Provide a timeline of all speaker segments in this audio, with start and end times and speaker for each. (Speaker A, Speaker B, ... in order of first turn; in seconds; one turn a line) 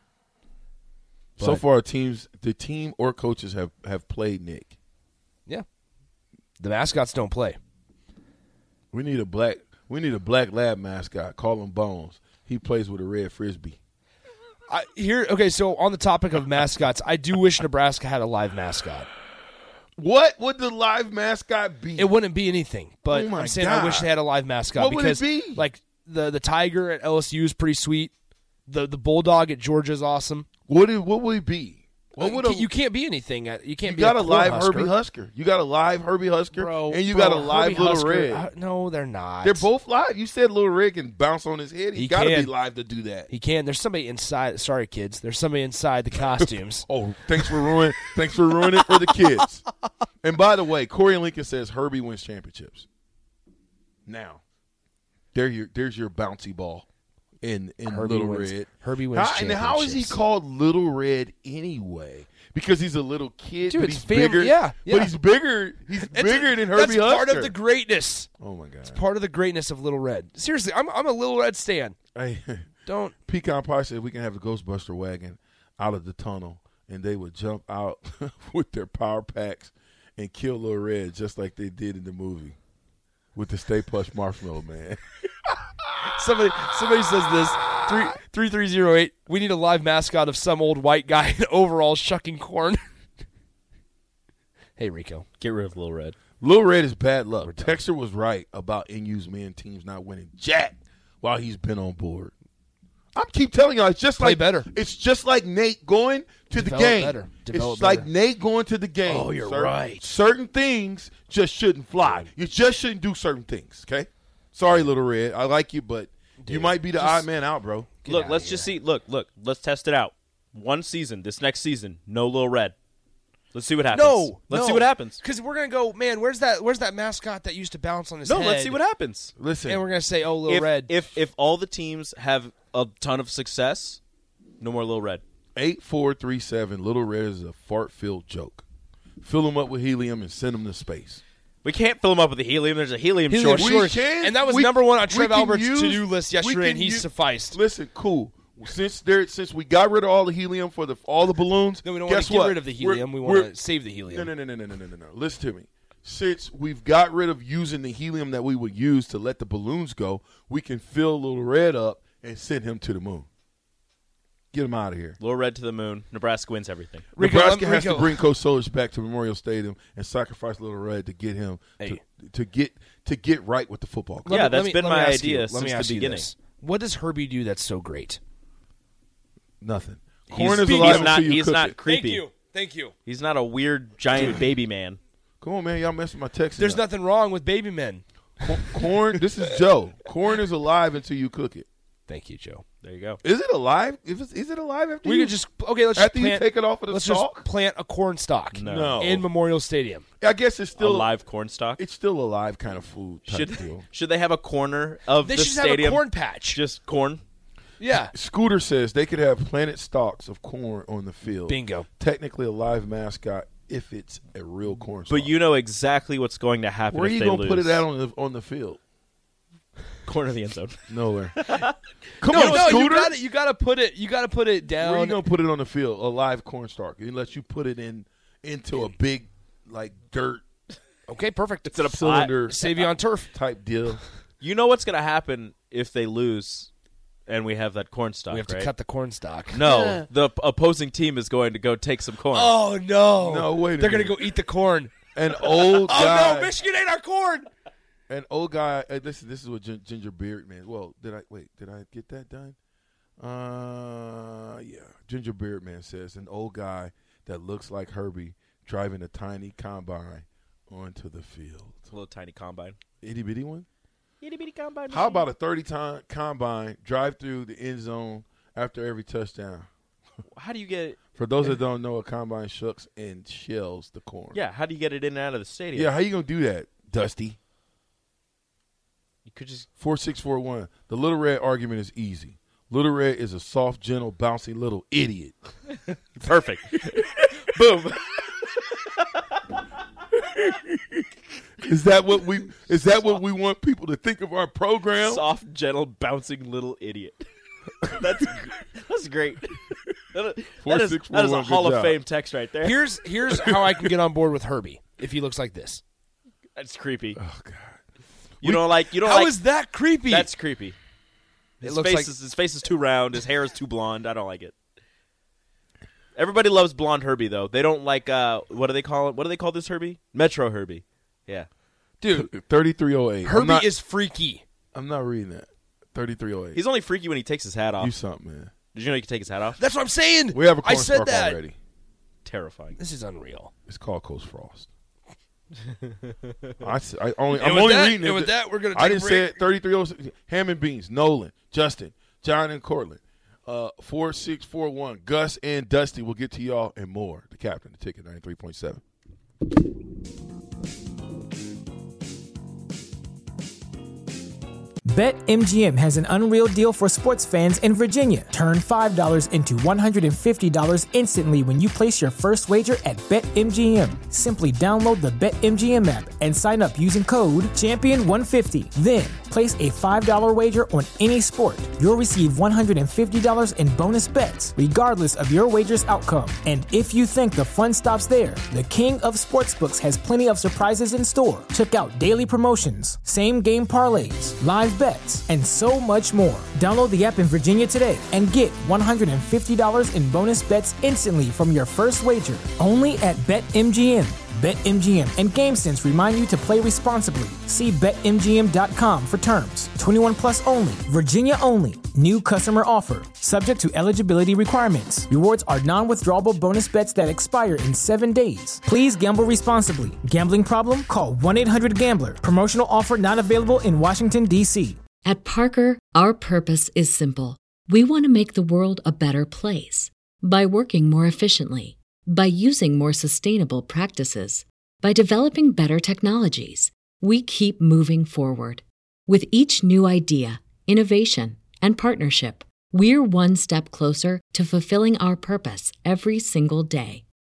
Speaker A: 1.4-4.7
Speaker B: 6.6-7.6
Speaker A: 8.9-13.8
Speaker B: 14.7-19.1
Speaker A: 20.0-22.1
Speaker B: 22.0-28.1
Speaker A: 23.1-24.1
Speaker A: 24.7-25.6
Speaker B: 28.7-30.5
Speaker A: 30.7-32.7
Speaker B: 32.2-34.9
Speaker A: 33.8-38.4
Speaker B: 36.5-39.7
Speaker A: 39.4-43.3
Speaker B: 41.9-42.5
Speaker B: 43.3-46.9
Speaker A: 46.4-49.6
Speaker B: 48.9-49.1
Speaker A: 50.2-52.9
Speaker A: 54.0-54.4
Speaker A: 55.3-56.9
Speaker A: 57.4-67.5
Speaker B: 57.9-60.2
Speaker B: 63.7-65.1
Speaker B: 66.0-68.3
Speaker A: 68.4-69.0
Speaker B: 68.9-72.0
Speaker A: 72.1-72.7
Speaker B: 72.8-73.1
Speaker A: 73.2-82.6
Speaker A: 83.3-85.6
Speaker B: 86.1-92.8
Speaker B: 94.8-95.2
Speaker C: 95.4-96.2
Speaker A: 96.4-102.3
Speaker B: 97.4-97.8
Speaker A: 103.1-117.9
Speaker B: 104.2-104.7
Speaker B: 106.5-108.1
Speaker B: 109.0-110.0
Speaker B: 116.4-117.3
Speaker B: 118.0-118.7
Speaker C: 118.0-122.7
Speaker C: 123.5-125.2
Speaker B: 123.9-128.8
Speaker C: 128.2-129.3
Speaker A: 129.4-129.8
Speaker B: 129.7-130.9
Speaker C: 130.5-134.0
Speaker C: 134.6-135.2
Speaker A: 135.6-138.6
Speaker A: 139.2-141.2
Speaker C: 141.6-143.8
Speaker B: 143.3-147.6
Speaker A: 143.5-153.5
Speaker B: 151.8-154.3
Speaker A: 154.1-163.3
Speaker A: 164.5-165.2
Speaker C: 165.2-167.1
Speaker B: 167.1-168.2
Speaker A: 167.2-174.4
Speaker B: 174.2-178.2
Speaker C: 174.3-176.3
Speaker A: 179.6-181.8
Speaker B: 180.3-181.2
Speaker C: 180.3-182.2
Speaker B: 181.8-182.9
Speaker C: 183.1-185.0
Speaker A: 184.1-184.4
Speaker A: 185.4-186.8
Speaker B: 186.6-188.0
Speaker A: 188.4-191.7
Speaker B: 188.6-188.8
Speaker B: 192.1-192.6
Speaker C: 192.8-193.2
Speaker A: 193.2-195.4
Speaker B: 195.0-200.0
Speaker A: 195.9-197.4
Speaker C: 198.5-199.0
Speaker A: 198.6-199.3
Speaker A: 200.2-201.1
Speaker C: 200.8-201.8
Speaker A: 201.8-203.8
Speaker C: 203.2-207.2
Speaker B: 205.2-206.6
Speaker B: 207.8-208.1
Speaker A: 207.9-215.3
Speaker B: 211.5-211.9
Speaker C: 215.1-217.8
Speaker A: 216.9-218.8
Speaker C: 220.0-220.8
Speaker A: 220.9-221.4
Speaker C: 221.3-222.9
Speaker A: 222.2-223.2
Speaker B: 222.3-225.2
Speaker A: 224.8-230.4
Speaker B: 231.1-231.8
Speaker C: 231.7-232.3
Speaker A: 231.8-232.7
Speaker B: 232.4-233.3
Speaker A: 233.3-234.0
Speaker C: 234.4-236.7
Speaker C: 237.3-238.7
Speaker B: 238.3-239.6
Speaker C: 239.5-242.6
Speaker B: 242.3-247.5
Speaker A: 243.2-244.2
Speaker A: 245.1-246.5
Speaker A: 248.1-252.6
Speaker A: 253.2-261.8
Speaker C: 261.9-262.8
Speaker A: 263.0-263.7
Speaker C: 264.2-265.2
Speaker A: 264.9-269.7
Speaker C: 270.3-271.0
Speaker A: 271.1-274.4
Speaker C: 274.3-275.9
Speaker A: 275.7-277.4
Speaker C: 279.3-279.7
Speaker A: 279.8-285.4
Speaker C: 286.1-289.4
Speaker A: 286.8-287.6
Speaker A: 290.1-291.1
Speaker A: 291.6-295.2
Speaker C: 295.0-297.3
Speaker C: 297.8-302.8
Speaker A: 297.9-298.3
Speaker A: 300.6-302.0
Speaker B: 302.6-305.8
Speaker A: 303.4-303.7
Speaker C: 306.6-307.2
Speaker A: 307.2-307.8
Speaker C: 308.4-309.4
Speaker B: 308.9-310.3
Speaker C: 310.1-310.8
Speaker C: 311.6-314.5
Speaker B: 311.6-312.1
Speaker C: 316.1-321.5
Speaker B: 322.0-322.3
Speaker A: 322.1-323.7
Speaker B: 323.2-324.4
Speaker A: 324.7-326.6
Speaker C: 326.5-327.9
Speaker A: 327.8-328.5
Speaker C: 328.7-329.6
Speaker B: 329.6-331.4
Speaker A: 330.3-331.6
Speaker C: 332.2-332.8
Speaker B: 332.8-333.5
Speaker A: 333.7-334.7
Speaker A: 336.6-348.8
Speaker B: 337.3-339.4
Speaker D: 354.9-414.8
Speaker E: 415.0-437.0